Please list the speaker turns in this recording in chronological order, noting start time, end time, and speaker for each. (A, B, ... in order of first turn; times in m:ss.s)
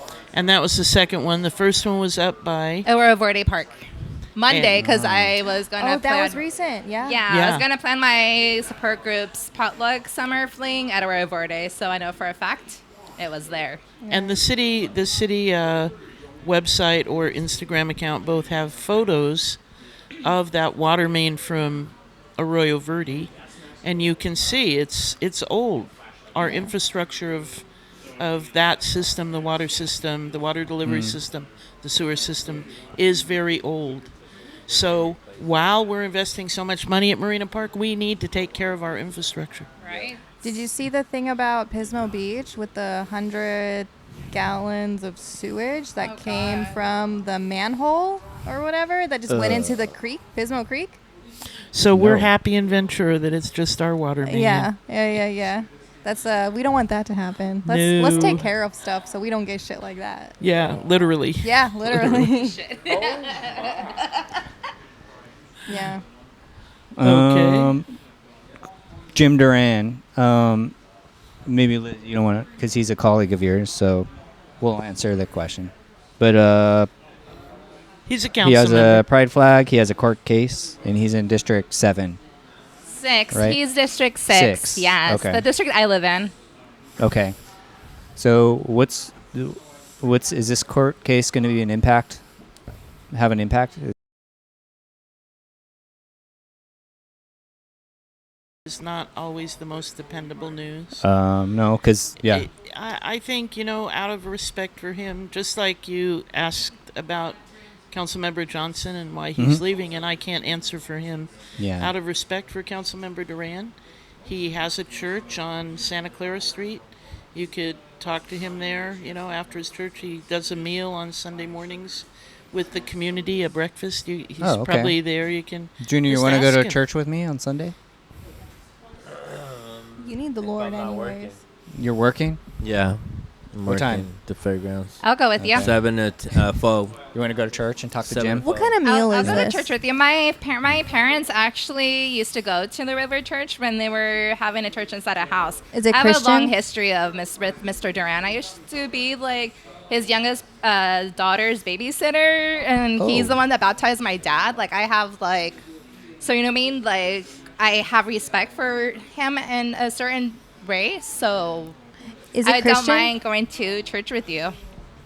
0:00.3-0:02.9 A
0:02.8-0:03.8 B
0:04.3-0:06.4 B
0:04.5-0:04.8 A
0:04.7-0:05.4 C
0:05.8-0:07.2 D
0:07.0-0:13.8 B
0:07.3-0:07.6 A
0:14.0-0:14.4 D
0:14.1-0:19.6 A
0:20.2-0:23.3 A
0:23.8-0:27.6 A
0:26.4-0:26.7 D
0:28.2-0:34.1 A
0:30.8-0:31.2 C
0:34.7-0:39.7 A
0:39.8-0:40.6 B
0:40.4-0:51.0 D
0:46.0-0:46.8 B
0:49.3-0:49.9 E
0:51.7-0:54.7 A
0:52.0-0:52.3 E
0:54.2-1:00.3 D
0:57.6-0:58.5 A
1:00.4-1:02.2 A
1:01.4-1:02.6 D
1:02.2-1:03.9 B
1:05.7-1:06.0 D
1:07.0-1:07.9 C
1:07.0-1:07.8 A
1:09.1-1:10.7 C
1:11.4-1:14.1 C
1:14.6-1:16.9 C
1:18.1-1:19.0 A
1:18.4-1:22.2 C
1:22.9-1:26.3 B
1:23.3-1:23.6 C
1:24.3-1:25.4 C
1:27.0-1:27.3 C
1:28.2-1:32.2 C
1:33.1-1:33.9 C
1:38.6-1:41.0 A
1:41.0-1:42.5 C
1:42.2-1:47.4 A
1:47.9-1:53.7 A
1:49.4-1:49.6 C
1:51.6-1:51.9 C
1:54.2-1:56.8 A
1:57.3-2:06.8 A
2:04.4-2:05.0 C
2:05.8-2:07.7 C
2:10.0-2:11.4 D
2:11.7-2:12.4 C
2:12.6-2:15.0 E
2:13.6-2:14.1 C
2:15.0-2:15.7 B
2:15.4-2:15.8 C
2:15.5-2:17.0 E
2:17.1-2:18.5 C
2:18.0-2:19.4 E
2:18.4-2:19.7 D
2:18.8-2:35.6 B
2:25.7-2:26.5 D
2:33.0-2:33.4 C
2:36.2-2:41.8 B
2:42.3-2:43.1 D
2:42.4-2:44.5 B